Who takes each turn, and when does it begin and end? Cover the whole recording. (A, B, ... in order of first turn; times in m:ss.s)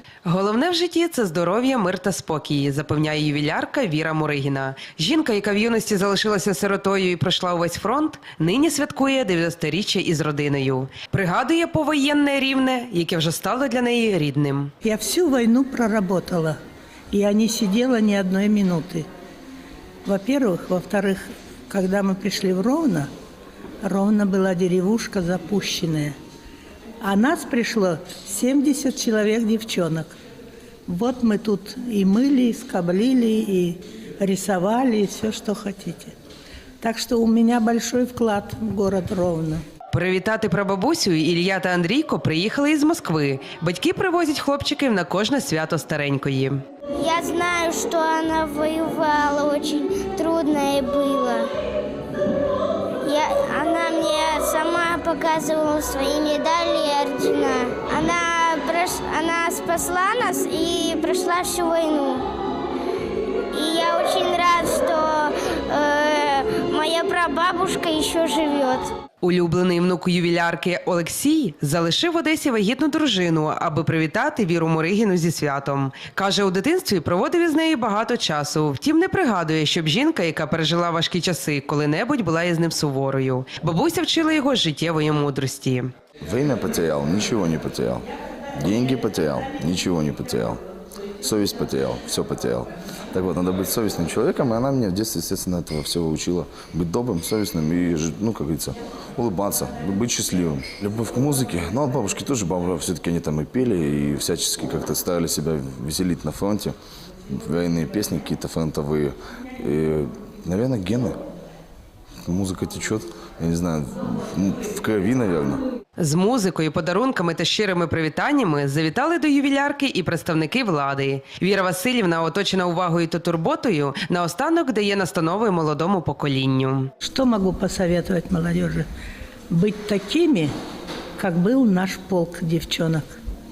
0:00.2-0:14.7 A
0:14.8-0:16.6 B
0:17.1-0:19.0 B
0:20.0-0:23.1 B
0:23.8-0:26.1 B
0:27.0-0:30.2 B
0:30.8-0:36.1 B
0:36.8-0:39.6 B
0:39.9-0:46.6 A
0:47.0-0:51.5 C
0:53.0-1:02.3 C
1:03.5-1:08.9 C
1:09.2-1:25.9 A
1:26.2-1:28.0 D
1:28.6-1:30.6 D
1:31.2-1:46.7 D
1:47.3-1:51.2 D
1:52.2-1:55.6 D
1:56.0-2:06.9 A
2:07.0-2:08.9 B
2:09.5-2:10.5 B
2:11.2-2:13.1 B